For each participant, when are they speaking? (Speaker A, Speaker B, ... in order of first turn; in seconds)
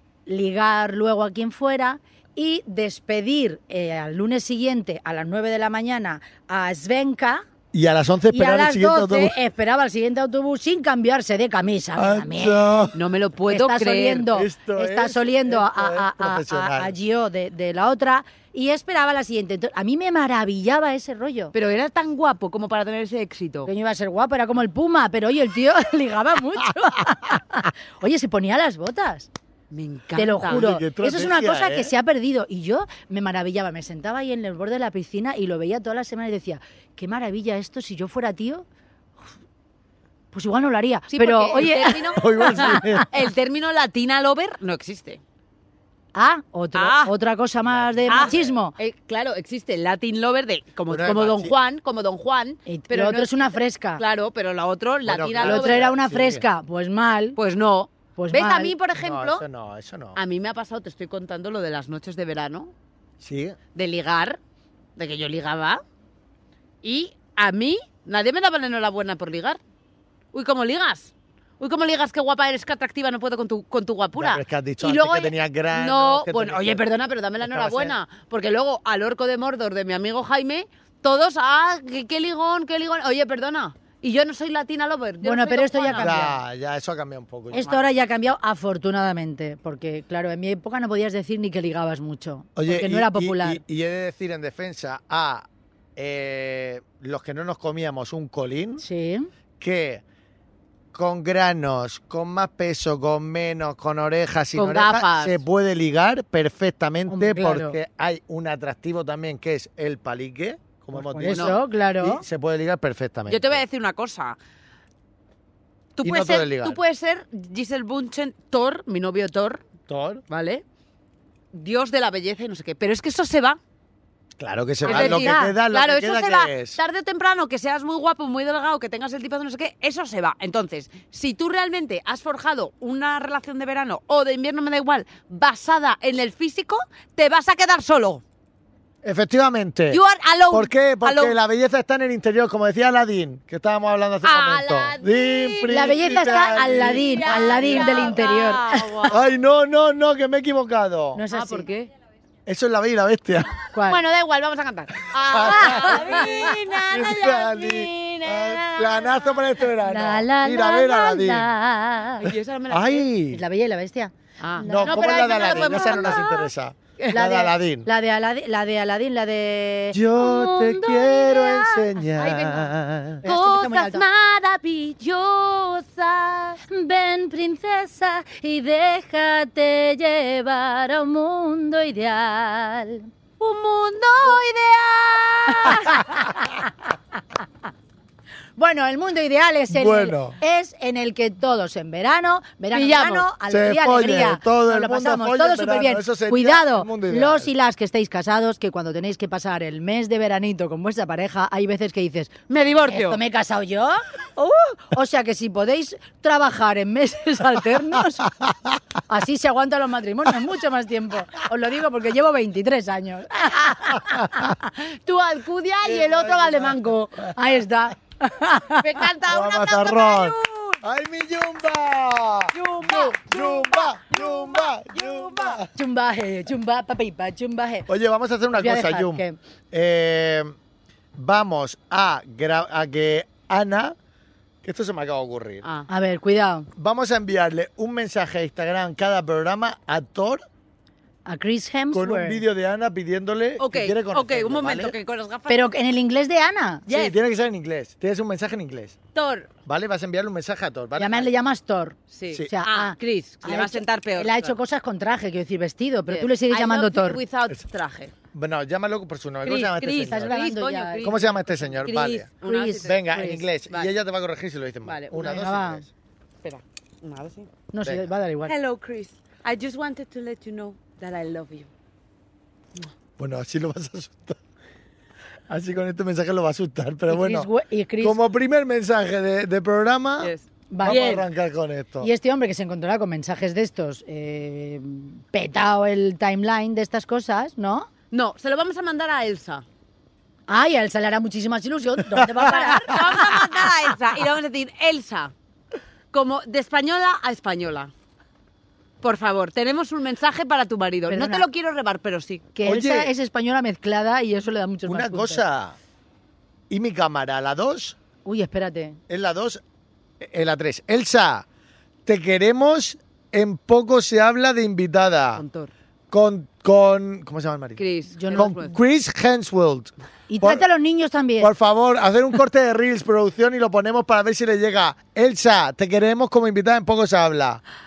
Speaker A: 0.3-7.5, 8.3-12.8, 13.5-21.5, 23.7-29.3, 30.1-38.6, 40.3-43.0, 46.1-48.7, 52.7-54.0, 55.4-57.4, 58.1-58.7, 85.2-86.4, 87.5-93.6, 98.8-99.3, 107.1-107.8, 110.9-112.2, 124.8-125.5, 145.7-149.1, 151.1-151.7, 153.7-154.0, 155.5-156.3, 159.8-162.3, 163.3-166.4, 167.1-171.9, 173.2-174.1, 176.7-183.1, 185.5-186.6, 188.6-208.4, 209.1-214.5, 217.3-219.0, 225.6-227.9, 228.6-229.4, 235.9-236.7, 241.2-242.4, 245.5-246.8, 251.0-257.2, 259.9-261.3, 262.4-262.9, 265.2-265.8, 267.7-268.5, 277.1-278.2, 280.7-281.2, 282.0-287.9, 290.5-293.5, 301.1-301.4, 302.5-305.4, 308.2-309.0, 318.1-318.6, 320.3-321.5
Speaker B: 7.7-9.3, 11.9-12.9, 14.3-16.9, 30.4-31.9, 42.1-43.1, 47.7-48.6, 50.9-51.5, 55.0-56.4, 58.9-60.2, 63.2-63.6, 74.2-76.8, 77.4-77.9, 86.0-87.7, 92.5-98.8, 99.6-100.0, 100.9-113.6, 116.0-116.8, 119.9-120.2, 124.4-126.8, 139.0-140.0, 140.5-148.2, 149.1-151.2, 152.4-153.6, 155.2-161.5, 162.3-163.4, 164.6-167.9, 169.9-173.2, 189.7-190.4, 193.5-197.5, 214.1-214.5, 215.8-217.3, 219.3-225.7, 227.9-230.5, 231.2-233.9, 234.6-235.6, 236.8-240.4, 241.9-244.9, 246.9-248.9, 249.7-251.3, 258.3-260.4, 261.0-262.3, 262.8-265.9, 267.8-268.1, 273.2-274.4, 275.5-277.5, 278.0-280.3, 280.8-282.1, 292.1-292.5, 302.6-303.1, 304.9-305.8, 306.7-308.0, 309.1-309.6, 310.2-311.4, 312.1-315.4, 316.1-320.6, 321.4-327.6
Speaker C: 12.9-14.3, 21.5-23.7, 29.7-30.6, 41.1-45.2, 46.7-47.1, 48.1-53.3, 54.0-55.9, 57.4-59.4, 60.1-62.7, 63.7-64.4, 65.0-65.8, 66.8-69.6, 70.3-86.2, 104.5-105.4, 111.3-111.6, 113.3-114.4, 116.0-119.6, 120.3-120.6, 121.5-123.6, 124.8-138.2, 139.9-141.3, 144.2-149.2, 151.3-151.9, 153.9-159.5, 162.1-163.1, 164.4-166.4, 172.1-172.7, 173.2-176.6, 183.4-186.0, 192.7-193.3, 202.5-203.2, 214.8-217.2, 218.8-220.8, 222.5-225.6, 235.6-235.9, 243.6-245.7, 246.9-247.1, 249.1-249.5, 252.1-254.5, 256.1-258.1, 259.4-263.9, 264.8-265.4, 266.4-267.5, 268.4-271.7, 280.2-281.2, 288.1-289.6, 292.4-295.3, 296.1-297.9, 299.0-302.5, 315.4-315.7, 317.8-318.8